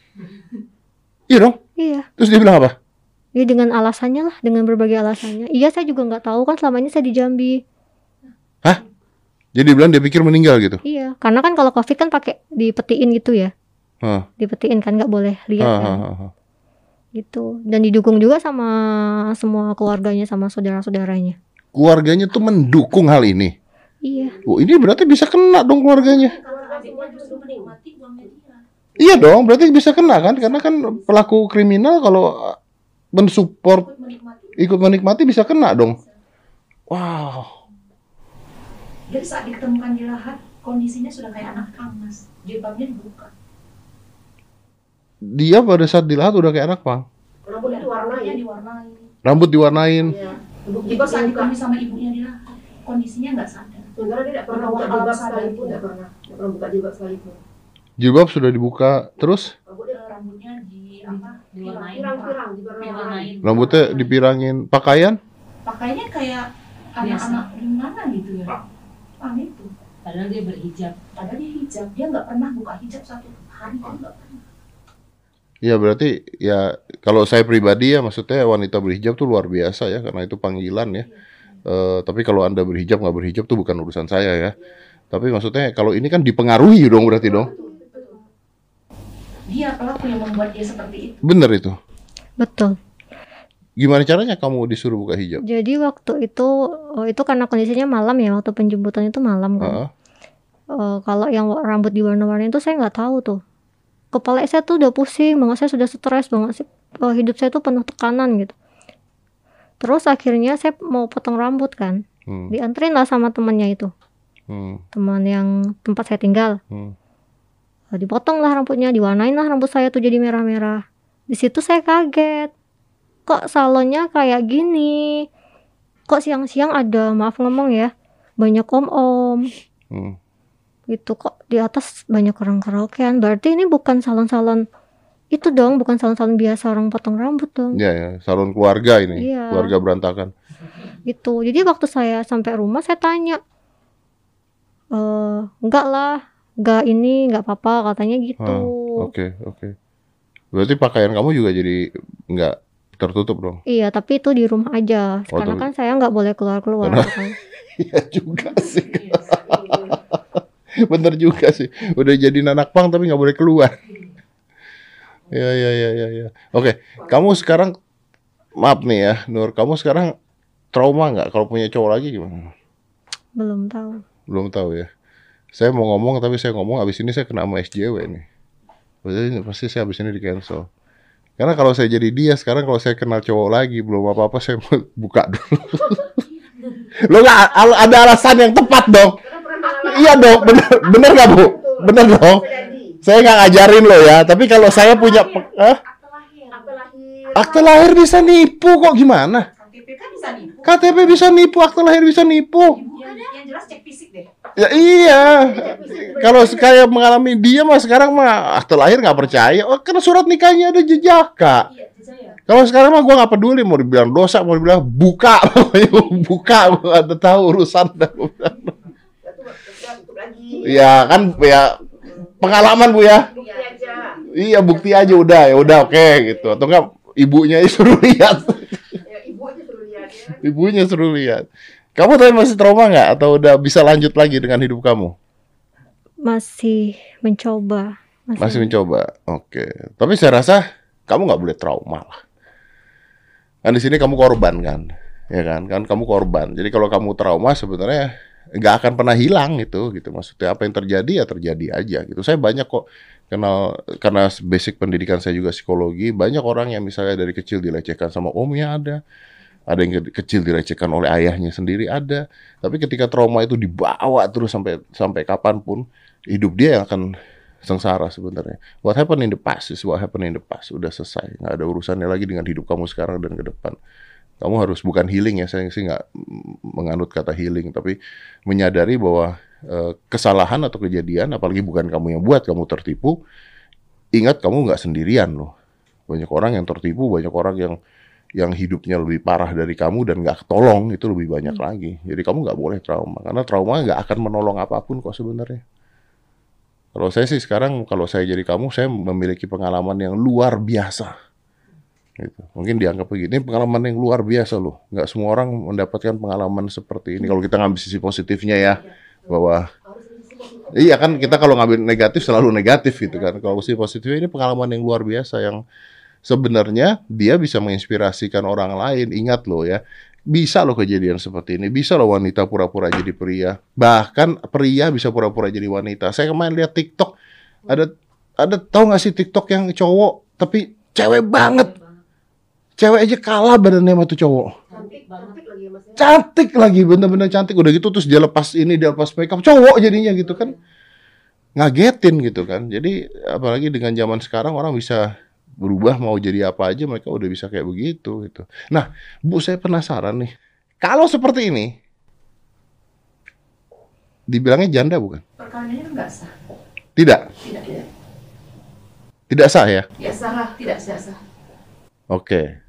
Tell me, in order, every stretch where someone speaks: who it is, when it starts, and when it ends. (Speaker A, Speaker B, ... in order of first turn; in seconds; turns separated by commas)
Speaker A: 1.3-1.6, Speaker B: 1.8-2.1, Speaker A: 2.2-2.7, Speaker B: 3.3-7.6, Speaker A: 9.5-10.8, Speaker B: 10.8-13.5, Speaker B: 14.4-16.0, Speaker A: 15.6-16.3, Speaker B: 17.1-21.4, Speaker A: 21.7-23.5, Speaker B: 24.0-24.4, Speaker C: 24.1-24.6, Speaker A: 24.4-26.4, Speaker D: 26.1-28.6, Speaker C: 26.1-27.7, Speaker C: 29.0-31.0, Speaker A: 29.0-32.6, Speaker A: 33.1-33.9, Speaker D: 33.7-36.1, Speaker A: 34.6-36.0, Speaker A: 36.9-37.5, Speaker D: 39.1-43.3, Speaker A: 45.2-47.0, Speaker C: 47.5-48.4, Speaker D: 47.6-49.1, Speaker A: 49.2-50.1, Speaker C: 50.0-51.5, Speaker D: 50.1-53.9, Speaker C: 54.0-57.4, Speaker D: 54.5-55.8, Speaker A: 58.0-59.5, Speaker C: 59.6-60.2, Speaker D: 59.9-63.7, Speaker E: 61.0-62.2, Speaker C: 61.9-63.6, Speaker E: 62.8-64.1, Speaker A: 63.4-65.2, Speaker D: 65.6-68.6, Speaker E: 67.0-67.4, Speaker D: 69.2-69.7, Speaker E: 70.0-71.0, Speaker D: 71.1-74.4, Speaker A: 75.6-81.1, Speaker A: 81.6-84.5, Speaker A: 85.1-87.5, Speaker D: 87.1-88.2, Speaker C: 87.1-88.1, Speaker B: 87.5-88.0, Speaker D: 89.5-91.2, Speaker A: 91.2-91.8, Speaker B: 92.4-92.8, Speaker A: 93.8-95.4, Speaker B: 95.4-99.8, Speaker A: 99.6-99.9, Speaker B: 100.7-103.4, Speaker B: 104.1-108.5, Speaker B: 109.8-113.9, Speaker A: 112.3-112.5, Speaker A: 114.5-114.8, Speaker B: 114.9-116.6, Speaker B: 117.9-122.5, Speaker B: 123.3-125.3, Speaker B: 126.1-129.5, Speaker A: 129.9-130.2, Speaker B: 130.9-134.7, Speaker B: 135.3-137.8, Speaker A: 137.7-140.3, Speaker B: 139.2-139.7, Speaker B: 141.1-143.4, Speaker B: 144.9-149.1, Speaker A: 148.4-149.7, Speaker A: 150.5-153.6, Speaker B: 153.7-157.3, Speaker A: 155.3-155.7, Speaker A: 156.8-157.1, Speaker A: 157.8-160.0, Speaker E: 158.4-159.3, Speaker C: 159.2-160.0, Speaker A: 160.8-163.8, Speaker A: 165.3-167.7, Speaker C: 167.0-167.3, Speaker A: 168.6-170.1, Speaker A: 170.7-172.5, Speaker B: 173.3-174.0, Speaker A: 174.3-174.9, Speaker A: 175.5-178.2, Speaker A: 179.0-180.7, Speaker A: 181.4-186.1, Speaker A: 187.0-189.2, Speaker C: 189.2-193.0, Speaker A: 189.8-192.4, Speaker A: 193.0-195.8, Speaker D: 194.8-196.7, Speaker E: 196.1-196.5, Speaker C: 196.5-197.8, Speaker A: 197.3-199.5, Speaker D: 199.5-201.2, Speaker A: 200.6-202.8, Speaker D: 202.7-205.1, Speaker E: 202.8-203.3, Speaker A: 204.6-211.7, Speaker C: 204.9-206.8, Speaker D: 211.7-212.4, Speaker A: 212.5-218.7, Speaker C: 219.2-221.3, Speaker A: 220.6-221.8, Speaker C: 222.1-222.5, Speaker A: 222.4-223.3, Speaker C: 223.2-224.2, Speaker D: 223.2-224.3, Speaker A: 224.3-228.9, Speaker D: 224.8-225.5, Speaker C: 225.4-226.6, Speaker C: 229.0-230.4, Speaker A: 230.4-235.1, Speaker B: 236.2-238.8, Speaker A: 238.4-242.2, Speaker A: 243.6-259.0, Speaker A: 259.7-267.1, Speaker A: 267.6-273.8, Speaker A: 274.4-277.9, Speaker A: 278.5-283.2, Speaker A: 284.1-285.5, Speaker A: 286.1-287.8, Speaker A: 288.4-295.6, Speaker A: 296.9-301.1, Speaker A: 302.2-309.7, Speaker D: 308.6-308.9, Speaker C: 309.8-311.7, Speaker A: 310.7-315.6, Speaker C: 313.0-313.8, Speaker A: 316.2-327.1, Speaker A: 327.7-331.7, Speaker E: 331.4-332.0, Speaker A: 332.8-334.6, Speaker E: 334.7-335.4, Speaker C: 334.7-336.1, Speaker A: 336.0-340.5, Speaker A: 341.6-345.1, Speaker A: 345.6-350.3, Speaker A: 350.8-351.7, Speaker A: 354.3-355.2, Speaker D: 355.4-356.3, Speaker A: 357.0-357.3, Speaker D: 357.4-357.9, Speaker A: 359.3-359.9, Speaker D: 360.0-361.2, Speaker A: 362.1-362.5